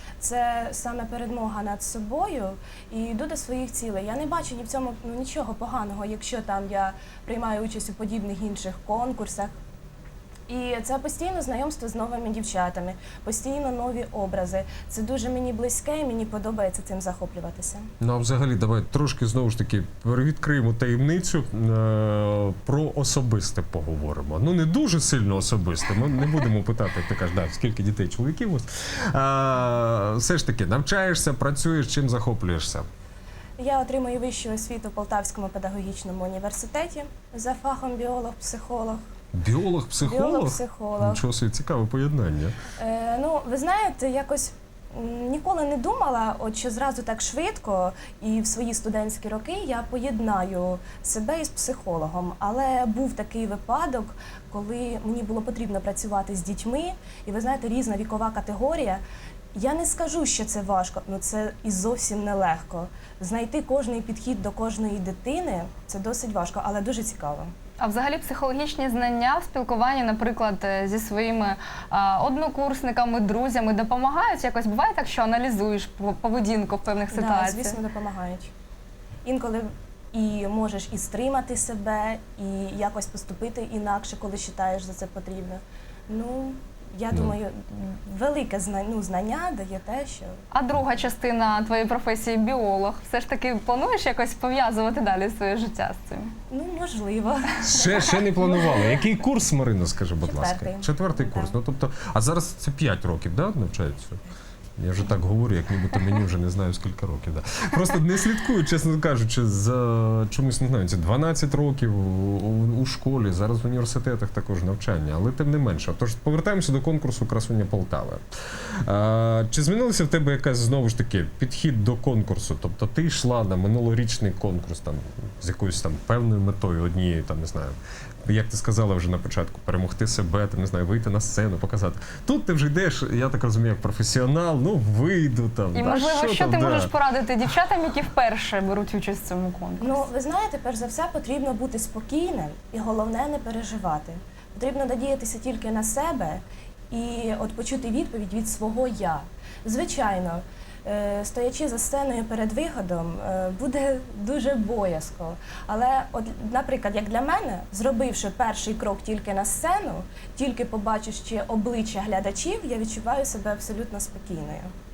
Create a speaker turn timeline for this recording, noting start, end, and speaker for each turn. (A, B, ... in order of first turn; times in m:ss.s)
0:00.2-0:09.5 A
0:10.5-0:17.9 A
0:18.0-0:32.8 B
0:33.6-0:39.0 A
0:39.3-0:42.6 B
0:40.0-0:41.2 A
0:42.8-0:59.0 A
0:59.5-1:07.5 A
1:07.8-1:17.8 C
1:17.1-1:18.5 A
1:19.2-1:30.4 A
1:30.5-1:36.3 C
1:36.5-1:38.2 A
1:37.6-1:44.2 B
1:40.2-1:41.6 A
1:44.8-2:07.7 B
2:08.2-2:16.9 B
2:15.7-2:20.0 C
2:19.8-2:44.7 A